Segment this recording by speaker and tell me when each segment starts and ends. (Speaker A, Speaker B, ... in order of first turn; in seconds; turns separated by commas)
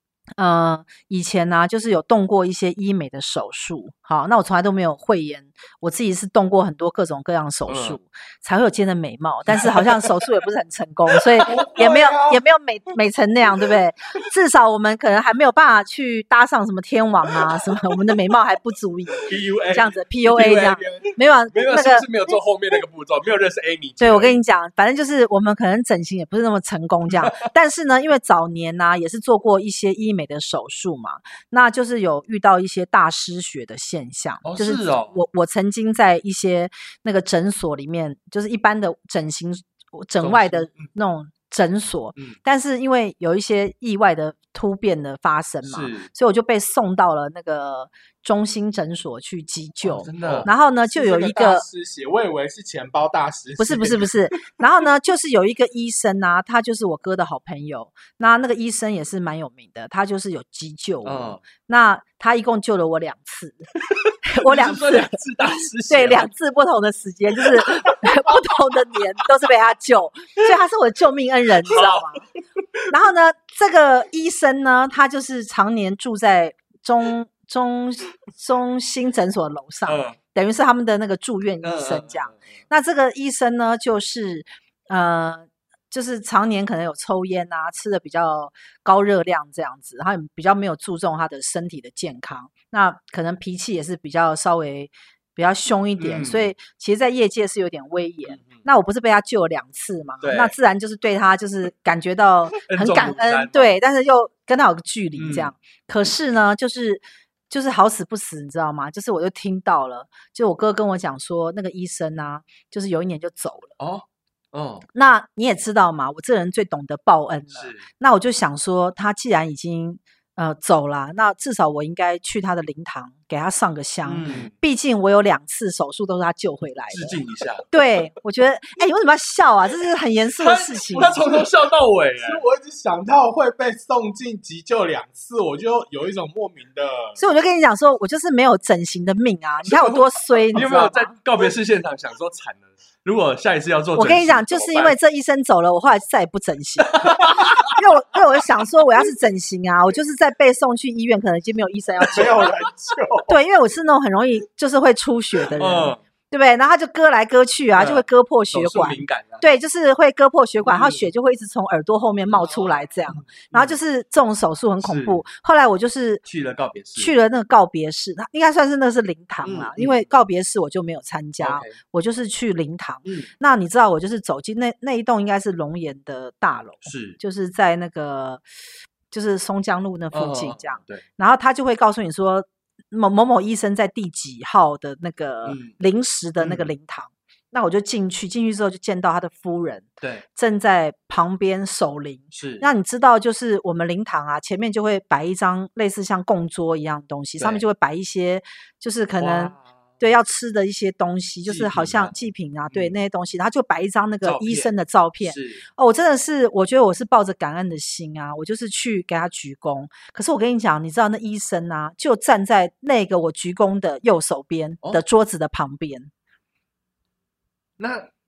Speaker A: 0.4-22.1, Speaker B: 7.7-8.0, Speaker B: 9.5-10.0, Speaker C: 11.4-12.4, Speaker C: 19.3-21.1, Speaker B: 19.3-20.9, Speaker B: 21.5-24.4, Speaker A: 24.0-51.6, Speaker B: 34.4-35.2, Speaker B: 40.2-40.8, Speaker B: 45.6-46.1, Speaker B: 49.8-50.5, Speaker C: 50.2-54.1, Speaker A: 53.6-63.7, Speaker B: 61.0-61.4, Speaker B: 64.0-66.3, Speaker A: 64.2-65.2, Speaker A: 65.8-72.3, Speaker B: 67.6-68.1, Speaker B: 71.7-72.2, Speaker A: 72.9-113.7, Speaker B: 79.8-80.2, Speaker B: 81.6-82.4, Speaker B: 96.0-96.5, Speaker B: 98.4-98.6, Speaker B: 100.2-100.5, Speaker B: 102.6-103.8, Speaker B: 105.2-105.5, Speaker B: 113.8-114.8, Speaker A: 114.9-127.2, Speaker B: 117.5-117.8, Speaker B: 124.0-124.5, Speaker B: 126.9-127.7, Speaker A: 127.7-131.2, Speaker B: 130.4-132.4, Speaker C: 131.0-131.5, Speaker C: 132.2-137.2, Speaker A: 137.2-141.2, Speaker B: 139.7-144.9, Speaker A: 143.9-152.5, Speaker B: 146.8-147.7, Speaker C: 152.1-153.3, Speaker A: 153.3-166.2, Speaker B: 155.5-156.0, Speaker B: 157.7-159.6, Speaker B: 160.6-161.1, Speaker B: 162.4-163.8, Speaker B: 164.8-165.2, Speaker B: 166.2-167.1, Speaker A: 166.9-178.4, Speaker B: 169.4-170.1, Speaker B: 171.4-171.8, Speaker B: 173.1-173.3, Speaker B: 176.8-177.2, Speaker A: 179.1-216.1, Speaker B: 180.1-181.0, Speaker B: 185.4-185.7, Speaker B: 186.4-186.7, Speaker B: 192.3-192.7, Speaker B: 197.4-197.6, Speaker B: 199.2-199.8, Speaker B: 201.4-203.0, Speaker B: 204.2-204.7, Speaker B: 205.2-205.6, Speaker B: 217.8-218.1